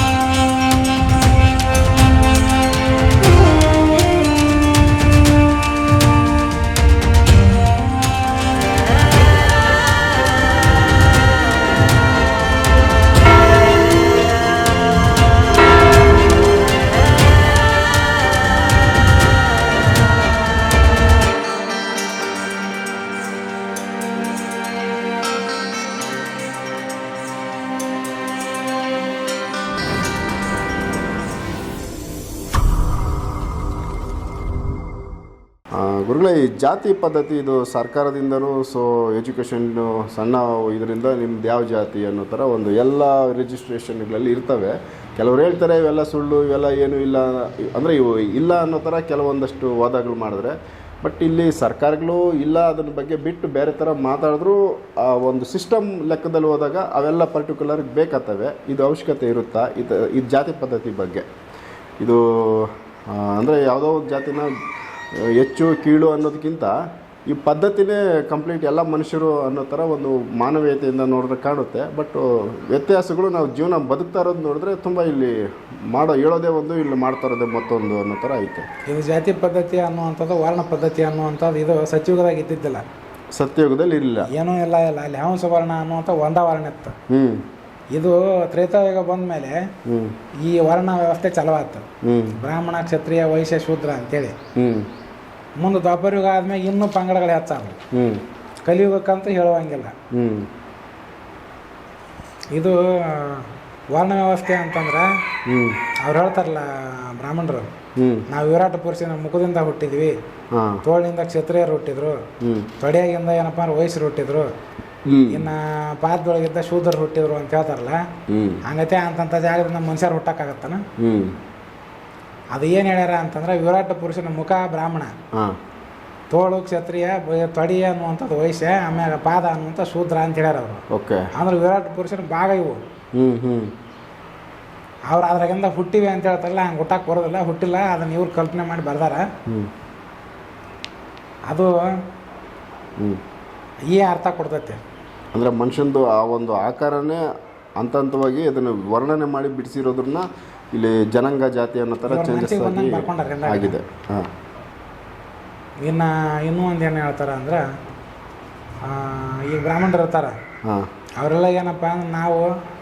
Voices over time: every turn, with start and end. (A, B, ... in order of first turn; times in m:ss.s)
0:35.7-1:01.3 A
1:02.0-1:04.5 A
1:05.1-1:06.8 A
1:07.3-1:18.7 A
1:18.9-1:22.8 B
1:23.4-1:24.3 A
1:24.3-1:27.0 B
1:27.1-1:27.4 A
1:27.9-1:29.6 B
1:29.8-1:30.2 A
1:30.4-1:31.9 B
1:32.0-1:32.4 A
1:32.4-1:34.4 B
1:34.6-1:34.9 A
1:35.6-1:37.8 B
1:37.9-1:38.2 A
1:38.7-1:39.9 B
1:40.1-1:40.5 A
1:42.5-1:45.1 B
1:45.5-1:45.8 A
1:46.0-1:47.7 B
1:48.0-1:48.3 A
1:48.3-1:50.2 B
1:50.5-1:50.8 A
1:50.8-1:52.2 B
1:52.4-1:52.7 A
1:52.8-1:54.5 B
1:55.1-1:55.5 A
1:55.3-1:58.1 B
1:58.3-1:58.6 A
1:58.6-2:00.8 B
2:01.0-2:01.4 A
2:02.5-2:05.1 B
2:06.3-2:12.8 B
2:10.9-2:11.3 A
2:13.2-2:13.7 A
2:15.1-2:19.3 B
2:21.5-2:21.8 B
2:23.9-2:24.8 B
2:25.3-2:27.2 A
2:27.8-2:34.3 A
2:32.1-2:33.8 B
2:35.8-2:37.6 B
2:38.8-2:40.4 B
2:41.2-2:42.5 B